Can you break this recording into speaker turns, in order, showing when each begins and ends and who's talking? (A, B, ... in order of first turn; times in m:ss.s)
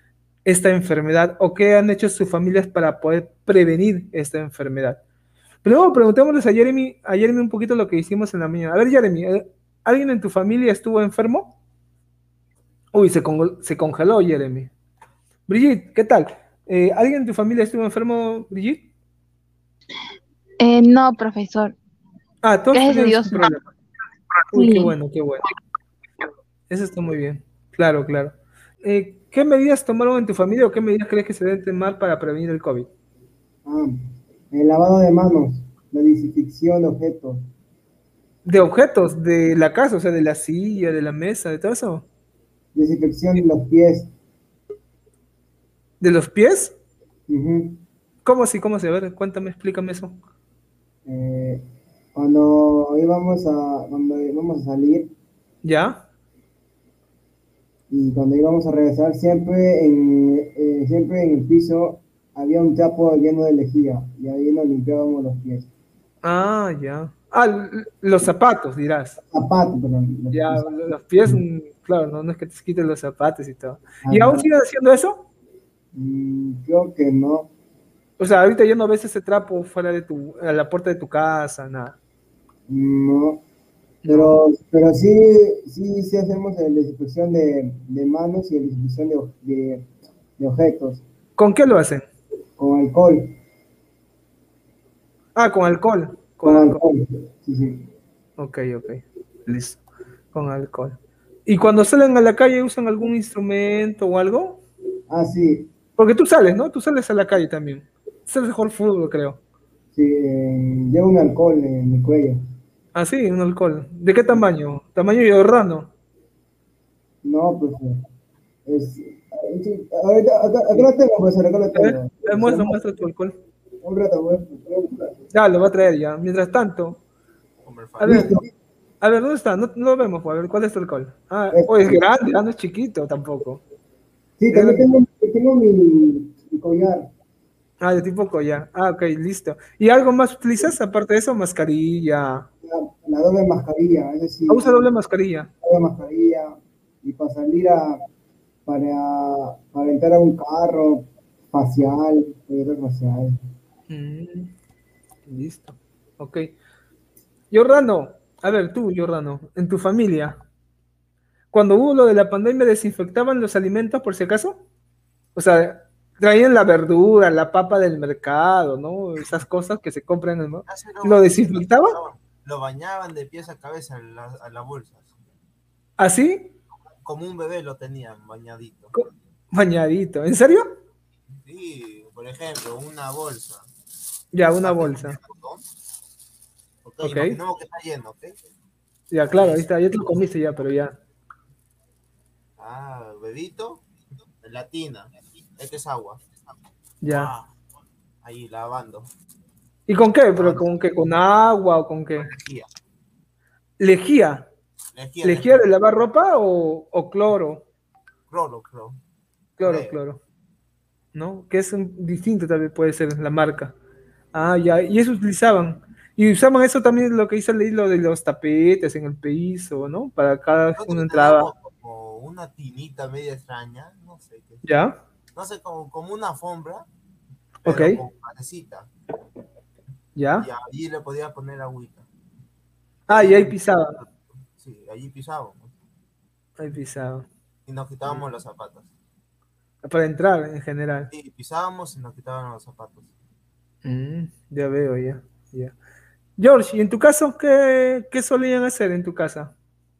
0:00.4-0:05.0 A
0:05.6-0:11.6 A
0:12.9-0:14.7 A
0:15.5-0:18.9 A
0:20.6-0:21.8 B
0:22.4-0:23.7 A
0:22.7-0:23.5 B
0:24.5-0:24.9 B
0:24.5-0:25.4 A
0:26.7-0:32.9 A
0:33.6-0:33.9 C
0:34.5-0:37.4 C
0:38.4-0:42.1 A
0:42.7-0:44.1 C
0:46.0-0:46.7 A
0:47.3-0:47.8 C
0:48.2-0:50.2 A
0:51.0-0:51.6 C
0:52.1-0:55.1 C
0:55.6-0:56.0 A
0:57.9-1:05.7 C
1:06.2-1:09.2 A
1:09.2-1:10.7 C
1:10.3-1:15.3 A
1:14.0-1:14.4 C
1:15.9-1:17.5 C
1:18.2-1:22.0 A
1:22.7-1:23.4 C
1:24.0-1:24.3 A
1:24.1-1:29.8 C
1:30.4-1:31.0 C
1:31.4-1:32.1 A
1:32.6-1:33.3 C
1:35.3-1:36.8 A
1:36.4-1:37.8 C
1:38.4-1:39.8 A
1:40.3-1:44.6 A
1:45.1-1:45.7 C
1:46.0-1:49.4 A
1:49.9-1:52.4 C
1:52.9-1:55.9 A
1:57.2-1:58.0 C
1:58.6-2:02.8 C
2:01.7-2:03.4 A
2:03.8-2:05.2 C
2:05.3-2:07.0 A
2:07.6-2:08.3 D
2:08.0-2:08.4 A
2:08.0-2:08.4 C
2:09.0-2:13.6 A
2:11.5-2:12.0 C
2:14.4-2:17.1 C
2:14.5-2:14.8 A
2:17.8-2:22.5 A
2:22.6-2:24.9 C
2:24.5-2:25.5 A
2:25.6-2:28.0 C
2:28.6-2:33.4 C
2:33.9-2:34.5 A
2:35.3-2:36.5 A
2:37.5-2:40.4 A
2:41.5-2:44.6 A
2:45.3-2:51.9 A
2:50.7-2:55.1 D
2:56.0-2:56.5 A
2:57.0-2:58.9 D
2:58.9-3:00.6 A
3:01.4-3:03.6 D
3:04.3-3:05.2 A
3:04.6-3:05.6 D
3:06.8-3:08.4 D
3:07.0-3:07.4 A
3:09.1-3:10.9 A
3:09.3-3:10.3 D
3:12.6-3:16.3 D
3:17.0-3:17.3 A
3:17.1-3:17.5 D
3:18.2-3:19.1 D
3:19.9-3:22.3 A
3:20.3-3:20.8 D
3:22.2-3:22.7 D
3:23.8-3:24.5 A
3:24.9-3:25.7 D
3:25.2-3:27.6 A
3:28.3-3:29.0 D
3:29.6-3:30.2 A
3:29.6-3:30.0 D
3:31.1-3:33.7 A
3:34.3-3:41.5 A
3:40.7-3:44.6 D
3:44.6-3:45.0 A
3:45.3-3:46.9 D
3:47.6-3:48.0 A
3:47.6-3:48.9 D
3:50.1-3:50.5 A
3:50.4-3:52.1 D
3:53.1-3:55.7 D
3:53.1-3:54.0 A
3:56.6-3:57.3 A
3:57.6-3:58.9 D
3:59.8-4:01.1 A
4:01.1-4:03.1 D
4:03.8-4:05.7 A
4:06.4-4:09.5 A